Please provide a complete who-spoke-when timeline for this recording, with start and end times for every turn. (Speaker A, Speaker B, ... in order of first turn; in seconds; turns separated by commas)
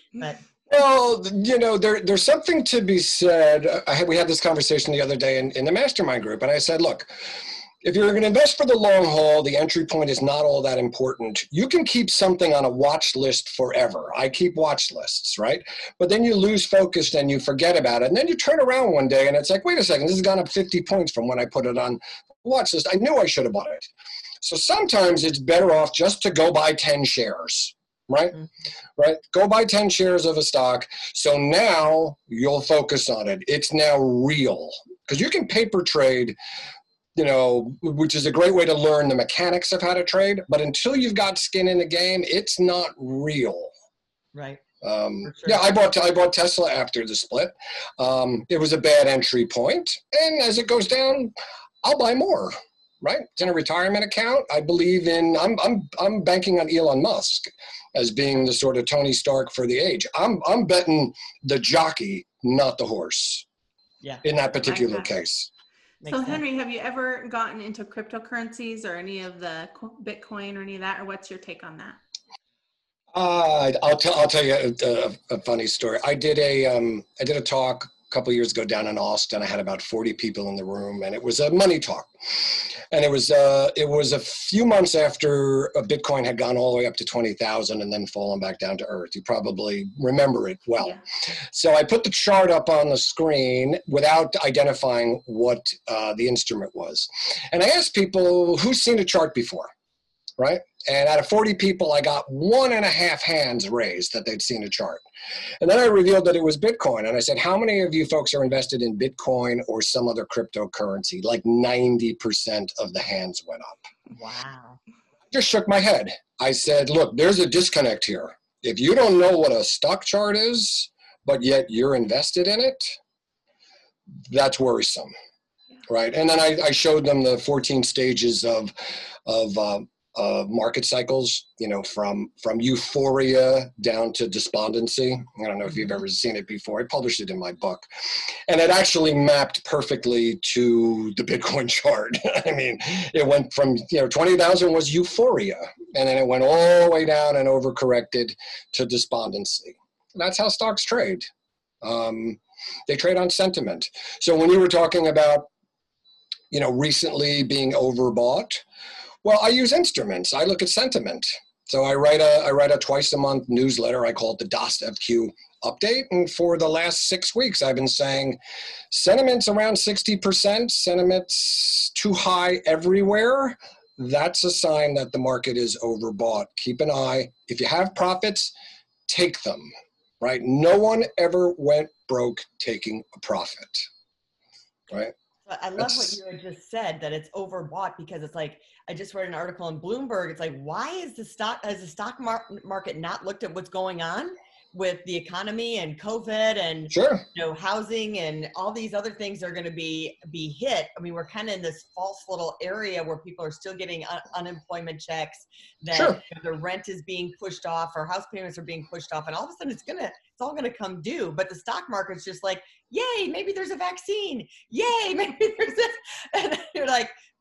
Speaker A: 0.7-7.1, Speaker A: 7.8-23.9, Speaker A: 24.4-28.4, Speaker A: 29.0-36.4, Speaker A: 37.1-43.7, Speaker B: 44.3-44.6, Speaker A: 44.8-63.5, Speaker B: 45.2-45.7, Speaker A: 64.2-65.5, Speaker C: 64.6-65.1, Speaker B: 66.0-66.4, Speaker C: 66.1-72.0, Speaker A: 73.1-99.7, Speaker A: 100.4-105.0, Speaker A: 105.6-113.9, Speaker B: 114.1-114.8, Speaker A: 115.3-123.0, Speaker A: 124.3-125.1, Speaker A: 125.9-128.7, Speaker A: 129.2-137.9, Speaker A: 138.5-151.3, Speaker A: 151.8-155.5, Speaker A: 156.5-158.6, Speaker A: 159.2-168.4, Speaker A: 168.9-178.5, Speaker A: 179.1-183.9, Speaker B: 185.5-217.1, Speaker A: 185.8-186.2, Speaker A: 196.9-197.2, Speaker A: 205.9-206.2